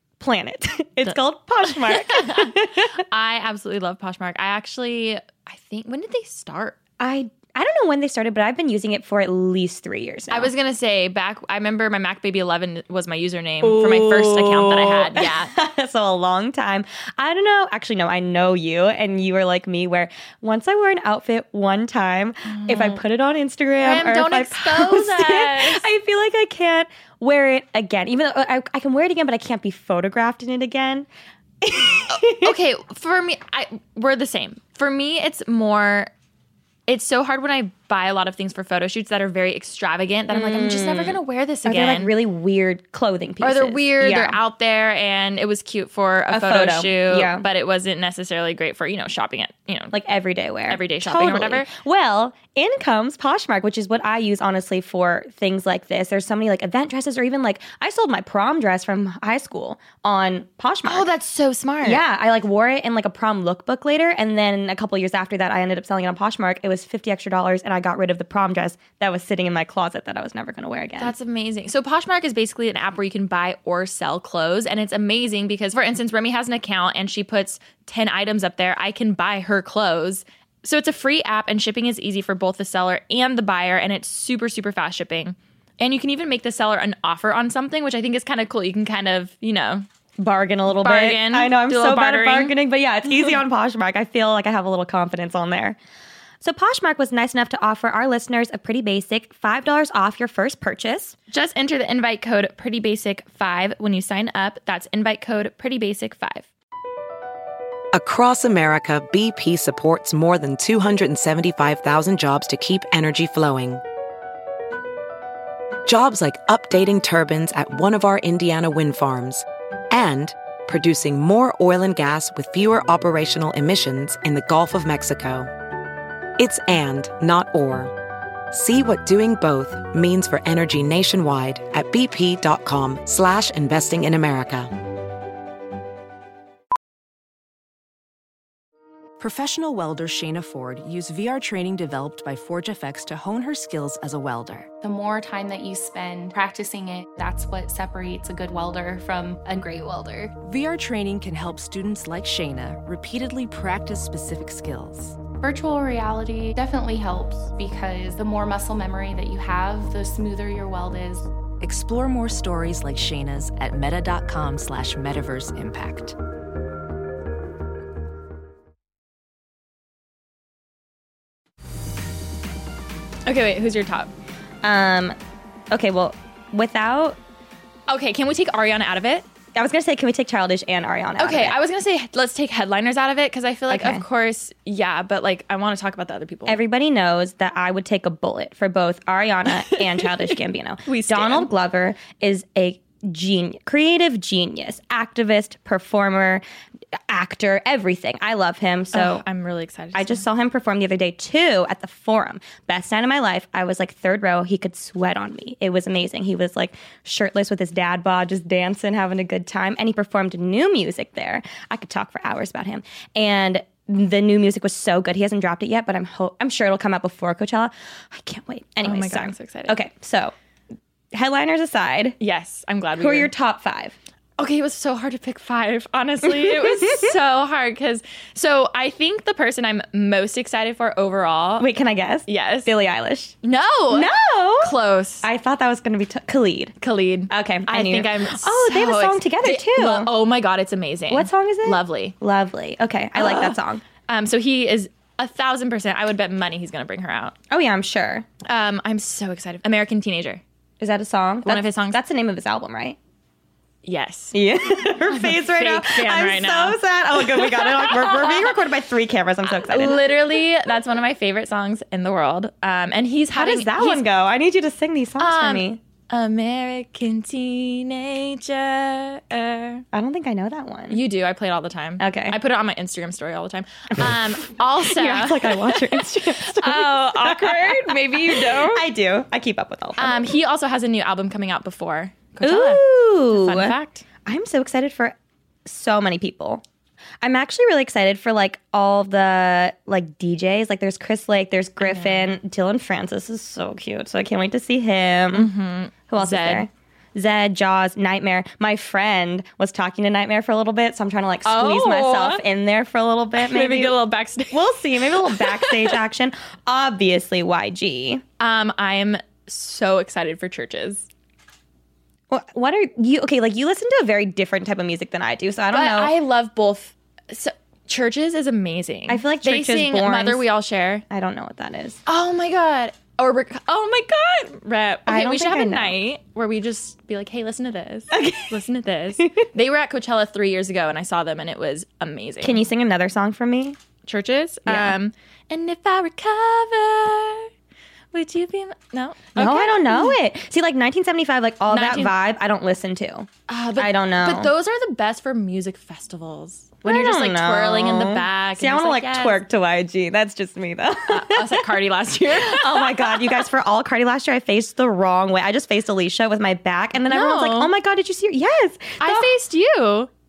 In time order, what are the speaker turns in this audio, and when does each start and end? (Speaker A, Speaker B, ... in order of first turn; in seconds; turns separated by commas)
Speaker A: 0.2-2.9, Speaker B: 1.8-6.8, Speaker A: 7.0-10.5, Speaker B: 10.3-15.5, Speaker A: 13.6-31.1, Speaker B: 22.5-23.0, Speaker B: 23.8-25.9, Speaker A: 31.6-32.5, Speaker B: 32.3-36.1, Speaker B: 36.9-42.1, Speaker A: 40.3-44.4, Speaker B: 43.4-49.9, Speaker A: 46.3-47.5, Speaker A: 49.9-61.1, Speaker B: 50.7-51.7, Speaker B: 60.8-62.0, Speaker A: 61.8-71.1, Speaker B: 71.0-89.8, Speaker A: 90.2-95.8, Speaker B: 90.8-92.5, Speaker A: 96.4-101.1, Speaker B: 101.3-106.5, Speaker C: 107.9-113.8, Speaker C: 115.8-125.5, Speaker C: 126.4-127.9, Speaker C: 128.5-134.7, Speaker D: 139.2-144.7, Speaker E: 144.8-150.3, Speaker D: 150.4-155.2, Speaker E: 155.3-161.3, Speaker D: 161.6-166.1, Speaker B: 173.2-174.1, Speaker A: 174.6-175.2, Speaker A: 175.7-177.2, Speaker B: 177.9-179.2, Speaker A: 179.5-181.5, Speaker B: 181.2-186.6, Speaker A: 183.7-184.0, Speaker A: 186.4-196.4, Speaker B: 189.6-190.2, Speaker B: 190.8-191.5, Speaker A: 197.1-199.2, Speaker B: 198.9-200.2, Speaker A: 199.9-220.3, Speaker B: 218.8-219.8, Speaker A: 221.1-222.2, Speaker B: 222.2-223.3, Speaker A: 223.0-223.9, Speaker B: 224.4-231.7, Speaker A: 226.4-227.1, Speaker A: 231.6-233.3, Speaker B: 232.3-232.7, Speaker B: 233.4-235.3, Speaker A: 233.9-236.8, Speaker B: 236.8-242.1, Speaker A: 237.3-240.1, Speaker A: 241.1-243.8, Speaker B: 243.2-247.3, Speaker A: 247.5-248.2, Speaker B: 248.4-250.4, Speaker A: 250.8-253.0, Speaker B: 251.4-252.0, Speaker B: 253.8-254.4, Speaker A: 254.3-260.0, Speaker B: 255.1-258.5, Speaker B: 259.6-264.0, Speaker A: 263.3-265.8, Speaker B: 265.2-269.8, Speaker A: 269.9-271.0, Speaker B: 270.9-278.8, Speaker A: 272.0-272.4, Speaker A: 274.8-280.3, Speaker B: 280.0-284.0, Speaker A: 282.4-283.7, Speaker A: 284.2-286.6, Speaker A: 287.2-295.5, Speaker B: 291.8-292.3, Speaker B: 295.3-296.7, Speaker A: 296.1-303.9, Speaker B: 301.4-302.4, Speaker B: 303.4-305.9, Speaker A: 304.5-308.2, Speaker B: 308.4-311.1, Speaker A: 312.3-316.1, Speaker B: 315.7-321.0, Speaker A: 319.1-320.4, Speaker A: 321.1-322.0, Speaker B: 322.1-332.6, Speaker A: 325.1-325.9, Speaker A: 328.1-328.6, Speaker A: 332.4-333.8, Speaker B: 334.1-337.5, Speaker A: 334.6-334.9, Speaker B: 338.1-340.2, Speaker A: 339.4-344.5, Speaker B: 341.7-342.1, Speaker B: 343.5-349.4, Speaker A: 346.8-351.7, Speaker B: 351.1-353.4, Speaker A: 352.3-359.3, Speaker B: 357.1-357.7, Speaker B: 359.0-360.1